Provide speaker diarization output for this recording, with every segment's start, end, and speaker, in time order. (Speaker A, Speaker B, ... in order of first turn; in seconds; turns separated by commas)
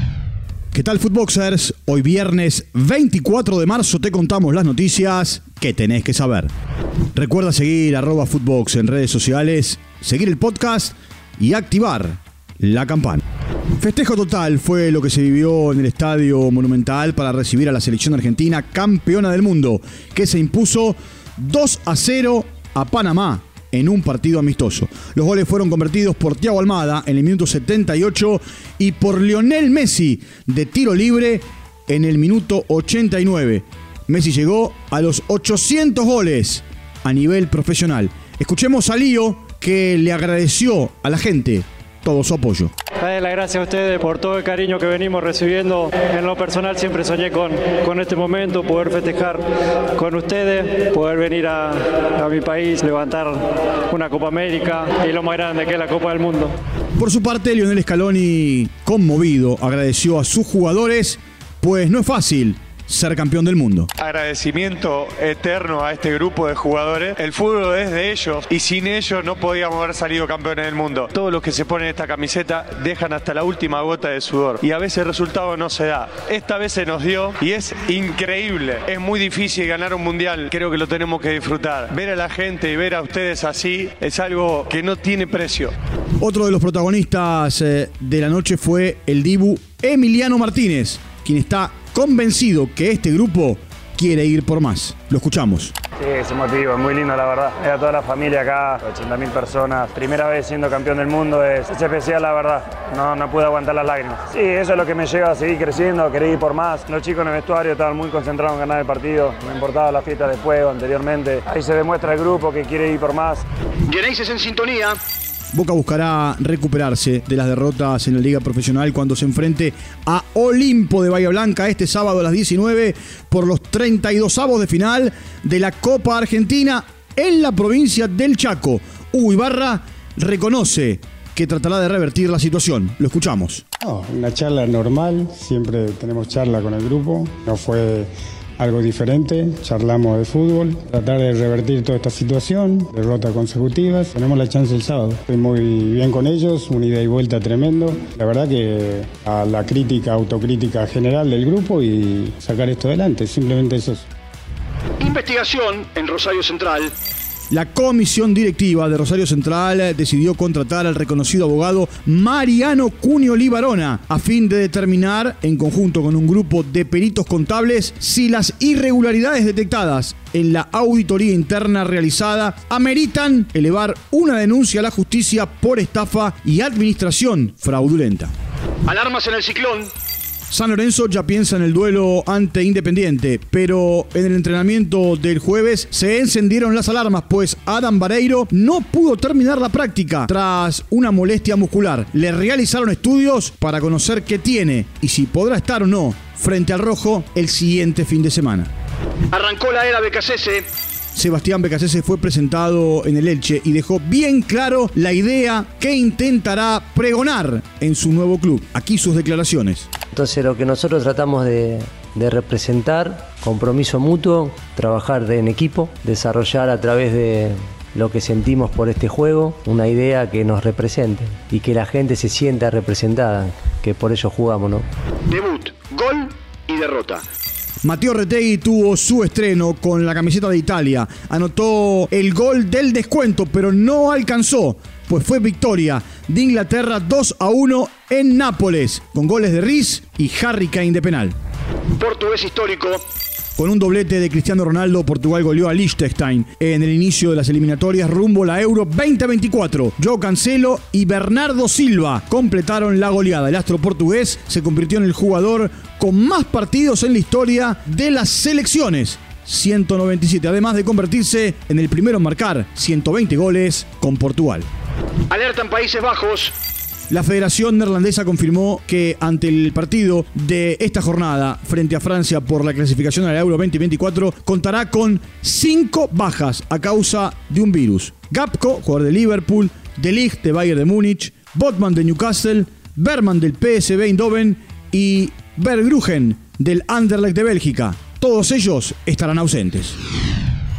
Speaker A: 0.7-6.5, Speaker A: 7.2-13.2, Speaker A: 13.8-42.7, Speaker B: 43.0-49.4, Speaker B: 50.0-56.5, Speaker A: 57.0-63.9, Speaker C: 64.0-85.7, Speaker A: 86.2-95.7, Speaker D: 96.0-113.4, Speaker E: 113.9-115.0, Speaker A: 115.5-133.6, Speaker F: 133.8-154.1, Speaker E: 155.0-156.9, Speaker A: 157.5-178.3, Speaker E: 178.9-179.9, Speaker A: 180.5-198.7, Speaker E: 199.3-200.7, Speaker A: 201.2-209.9, Speaker G: 210.1-224.9, Speaker E: 225.3-227.2, Speaker A: 227.8-241.3, Speaker E: 242.0-243.0, Speaker A: 243.6-264.7, Speaker E: 265.3-266.5, Speaker A: 267.1-290.0